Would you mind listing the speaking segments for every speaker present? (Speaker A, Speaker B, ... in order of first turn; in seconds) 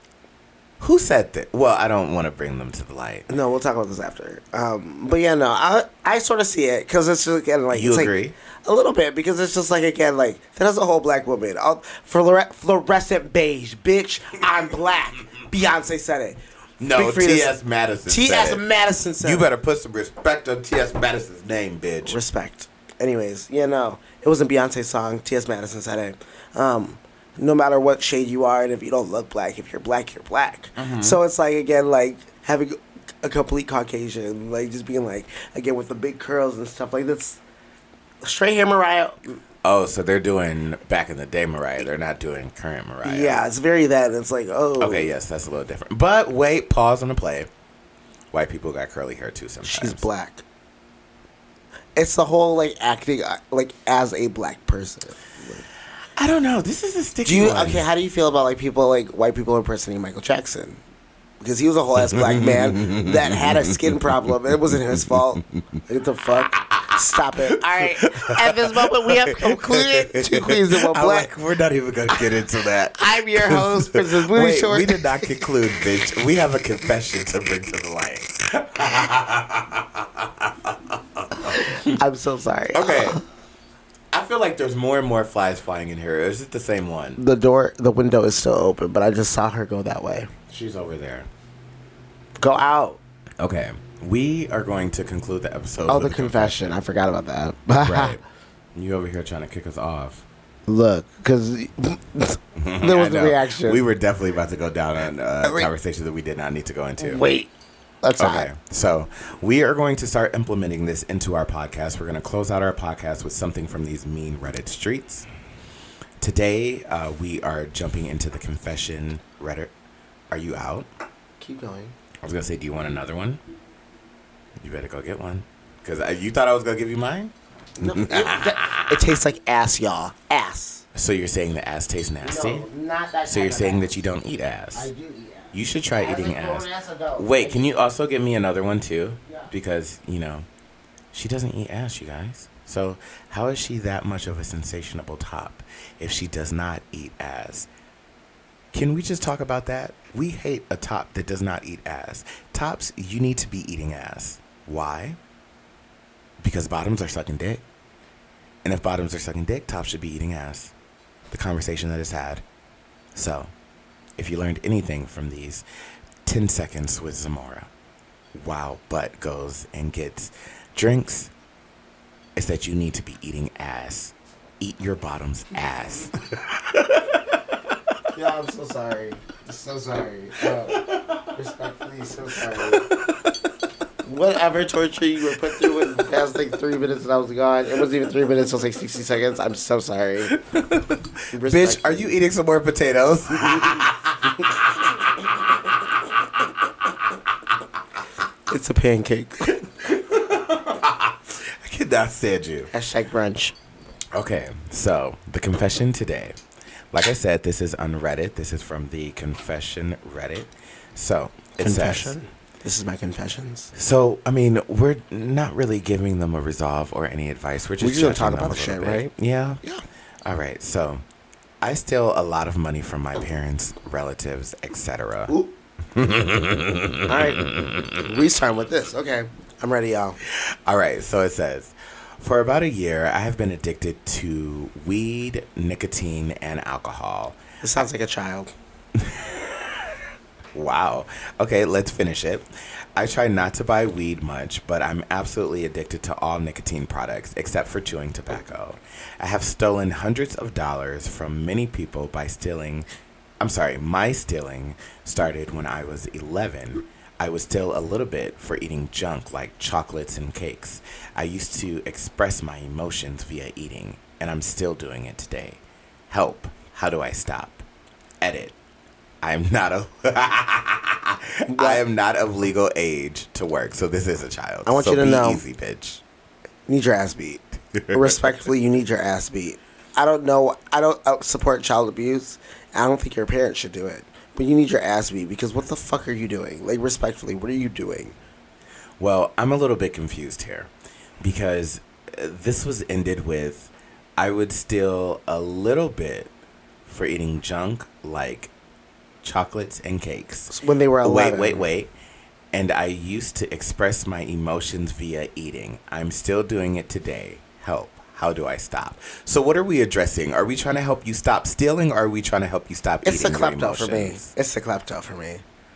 Speaker A: 0.8-3.3, 7.7-8.3, 16.8-18.6, 19.2-22.2, 30.8-31.2, 39.6-43.4, 44.8-47.5, 48.3-50.1, 56.1-57.8, 62.0-64.0, 64.8-65.4, 67.8-82.0, 82.7-83.2, 84.1-87.2, 90.5-91.3, 93.4-96.8, 97.8-98.2, 98.7-100.2, 102.5-107.2, 108.2-115.3, 116.2-119.7, 120.3-120.9, 122.2-123.4, 124.6-129.0, 130.9-132.7, 133.2-134.9, 135.5-140.4, 141.1-147.7, 148.7-155.2, 156.4-157.6, 158.6-160.7, 161.3-162.4, 163.1-163.5, 164.2-165.6, 166.2-167.7, 168.3-171.3, 172.3-177.6, 180.7-181.2, 182.6-183.3, 185.6-185.9, 190.3-194.3, 199.7-202.7, 204.1-206.4, 206.9-212.1, 213.7-219.6, 220.2-221.0, 221.6-225.3, 225.9-228.0, 230.2-237.4, 238.9-240.0, 240.5-252.8, 253.4-267.6, 268.2-268.6, 269.2-276.0, 277.7-278.2, 289.0-296.3, 296.9-298.5, 299.2-301.9, 302.5-314.3
Speaker B: 3.3-17.6, 18.1-19.5, 22.0-37.4, 38.2-39.4, 43.0-45.1, 49.6-50.4, 52.0-55.6, 57.2-60.8, 61.4-71.3, 72.1-72.4, 73.0-75.3, 81.7-83.2, 87.2-90.3, 92.4-93.0, 95.8-98.2, 100.7-103.8, 105.4-105.7, 107.0-107.5, 108.0-108.5, 121.4-122.0, 127.8-130.8, 132.2-134.0, 134.7-137.7, 178.1-182.8, 184.0-190.4, 191.3-192.1, 198.5-199.6, 202.7-203.5, 211.6-213.7, 217.8-219.8, 227.1-230.2, 237.6-238.5, 271.5-271.8, 274.6-275.4, 276.7-288.1, 300.5-301.6, 313.0-315.4